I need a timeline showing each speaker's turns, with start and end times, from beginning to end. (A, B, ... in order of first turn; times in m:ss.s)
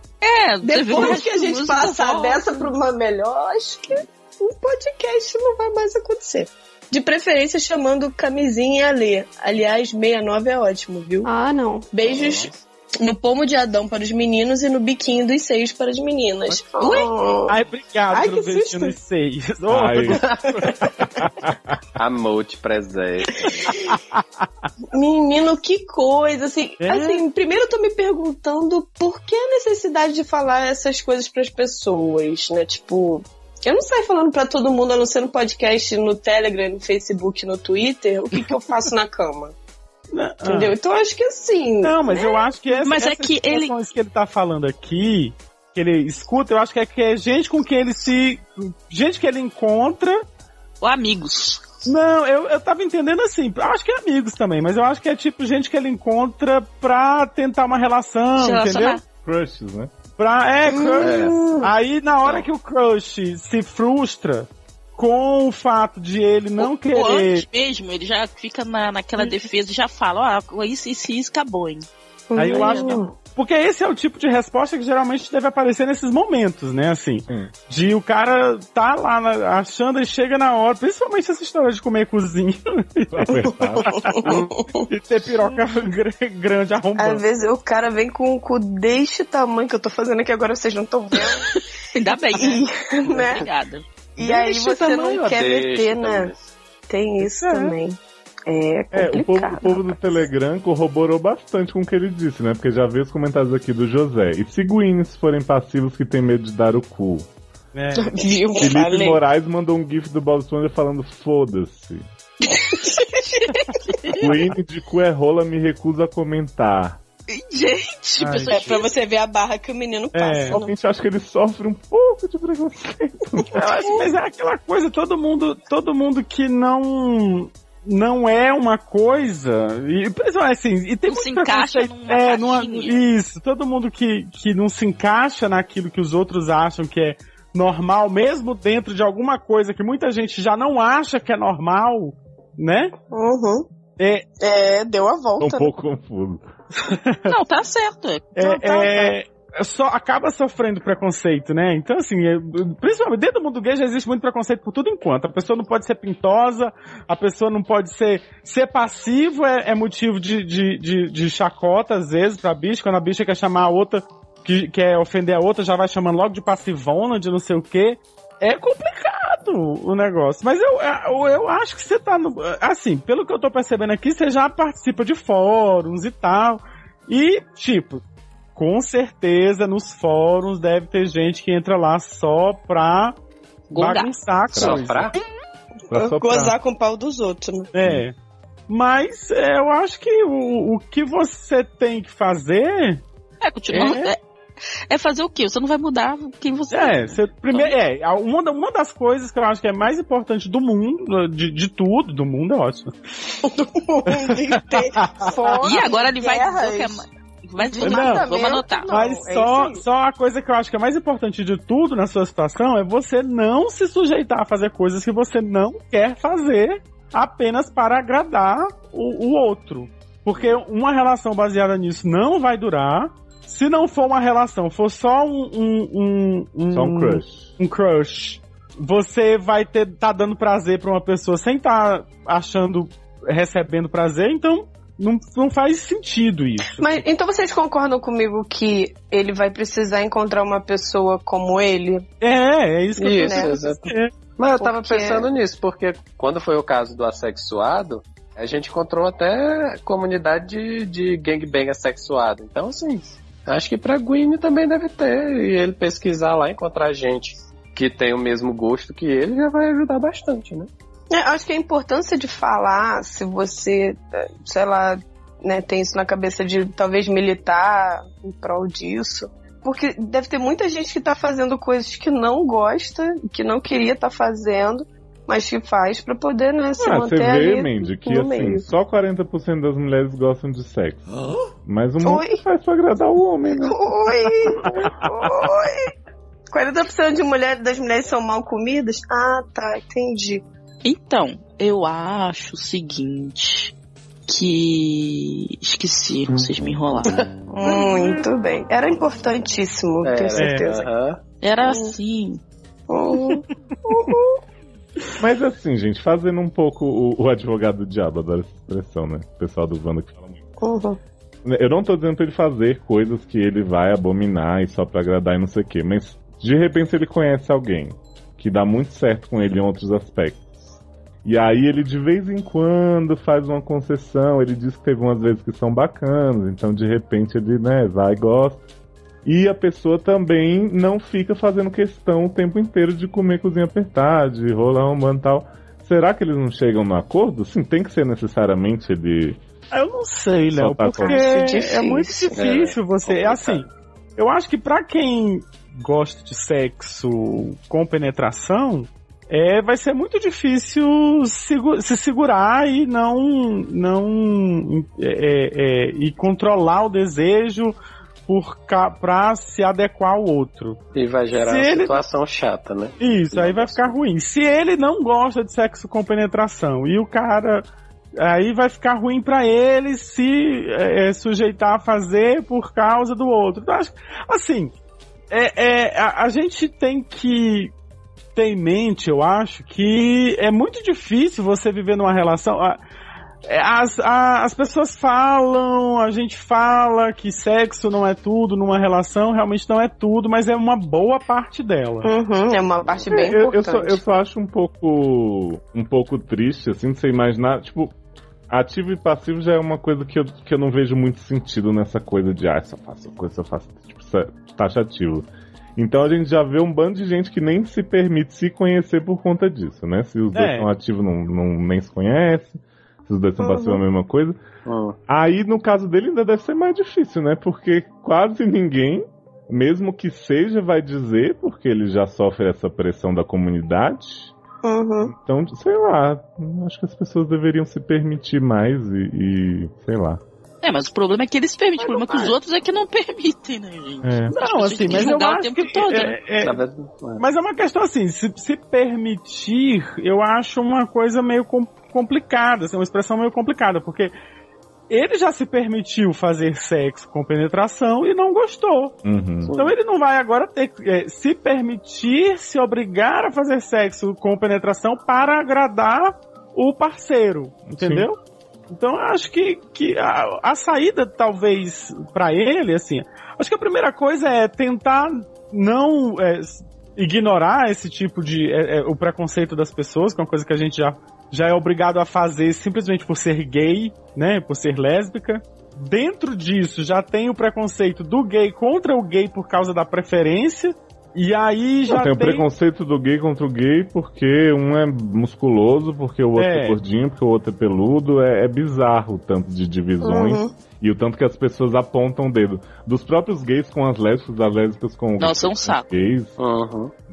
0:00.2-0:02.7 A
0:00.6-0:17.6 B
0:12.0-0:12.6 C
0:16.8-0:17.1 A
0:17.5-0:20.5 D
0:18.1-0:19.0 B
0:19.7-0:20.3 E
0:20.2-0:20.5 C
0:20.5-0:20.9 B
0:21.0-0:21.8 E
0:22.0-0:23.7 C
0:23.7-0:24.7 D
0:24.9-0:39.6 B
0:26.8-0:27.2 D
0:40.1-0:40.8 D
0:40.4-0:42.3 B
0:41.8-0:50.2 D
0:42.8-0:43.8 A
0:50.8-0:51.6 A
0:51.8-0:59.0 D
0:58.4-0:59.0 A
0:59.2-0:59.9 E
1:00.2-1:07.4 D
1:00.7-1:01.7 B
1:01.0-1:01.4 C
1:06.6-1:11.9 A
1:12.3-1:13.1 B
1:12.4-1:27.2 D
1:12.5-1:13.0 A
1:23.1-1:24.3 E
1:23.4-1:24.9 B
1:27.0-1:31.5 B
1:31.9-1:33.8 A
1:32.4-1:33.5 B
1:34.2-1:36.3 B
1:34.2-1:36.4 C
1:36.9-1:40.2 B
1:37.2-1:37.8 D
1:38.9-1:47.3 E
1:47.7-1:48.2 D
1:48.0-1:49.2 B
1:48.6-1:52.1 E
1:52.5-1:54.2 B
1:54.2-1:57.0 E
1:57.3-1:58.9 A
1:58.2-1:58.7 D
1:58.5-2:00.7 B
2:00.1-2:00.6 D
2:00.5-2:03.8 E
2:03.5-2:22.9 D
2:11.1-2:13.0 A
2:23.1-2:23.7 B
2:24.0-2:24.2 D
2:24.4-2:25.7 B
2:25.4-2:26.5 E
2:26.8-2:27.4 D
2:27.3-2:28.3 A
2:28.4-2:58.0 D
2:28.4-2:29.2 B
2:58.6-3:03.2 D
3:03.7-3:04.1 A
3:03.7-3:05.2 D
3:04.6-3:04.8 E
3:04.6-3:05.2 C
3:05.9-3:06.6 E
3:05.9-3:07.7 B
3:07.7-3:08.2 D
3:08.7-3:13.0 D
3:13.4-3:14.2 A
3:13.7-3:14.1 D
3:14.9-3:17.8 A
3:16.7-3:22.9 D
3:23.4-3:27.1 B
3:24.1-3:25.3 D
3:25.6-3:28.9 A
3:27.6-3:29.8 B
3:27.8-3:28.3 D
3:28.9-3:57.0 D
3:46.7-3:47.5 E
3:56.8-4:02.1 B
4:02.2-4:04.1 D
4:03.0-4:20.7 C
4:03.0-4:03.7 B
4:04.6-4:05.3 B
4:21.1-4:38.7 B
4:36.8-4:41.0 E
4:41.6-4:43.8 E
4:42.0-4:42.4 B
4:43.6-4:45.9 B
4:44.6-4:44.9 D
4:46.5-4:50.4 B
4:50.8-4:53.7 A
4:54.3-4:57.2 A
4:57.5-5:00.9 B
5:00.0-5:01.2 C
5:00.4-5:00.7 D
5:01.4-5:02.4 A
5:01.6-5:01.9 B
5:02.9-5:04.4 B
5:05.2-5:10.4 E
5:10.6-5:11.0 B
5:11.4-5:20.5 E
5:21.2-5:28.6 E
5:29.2-5:39.4 E
5:39.7-5:57.8 D
5:40.5-5:41.3 E
5:41.0-5:42.4 B
5:42.3-5:43.6 C
5:58.3-6:00.8 D
6:01.0-6:04.0 C
6:01.3-6:02.0 D
6:03.0-6:07.7 D
6:08.2-6:14.7 D
6:15.3-6:17.7 D
6:18.4-6:22.8 D
6:23.4-6:32.1 D
6:32.0-6:34.0 B
6:33.1-6:38.0 E
6:38.5-6:54.4 E
6:50.3-6:50.7 D
6:53.4-6:53.8 B
6:54.7-6:55.0 C
6:55.1-7:04.3 E
7:04.6-7:05.1 B
7:05.0-7:10.2 E
7:10.6-7:16.2 A
7:11.8-7:12.4 B
7:14.0-7:14.3 E
7:14.3-7:16.6 D
7:16.4-7:17.2 C
7:17.2-7:24.1 D
7:24.9-7:29.0 D
7:29.0-7:29.5 E
7:29.4-7:29.7 C
7:29.6-7:38.2 D
7:37.7-7:38.1 E
7:38.7-8:02.5 D
8:01.9-8:16.4 E
8:06.4-8:06.8 D
8:10.0-8:10.5 B
8:15.2-8:16.0 A
8:16.4-8:16.9 C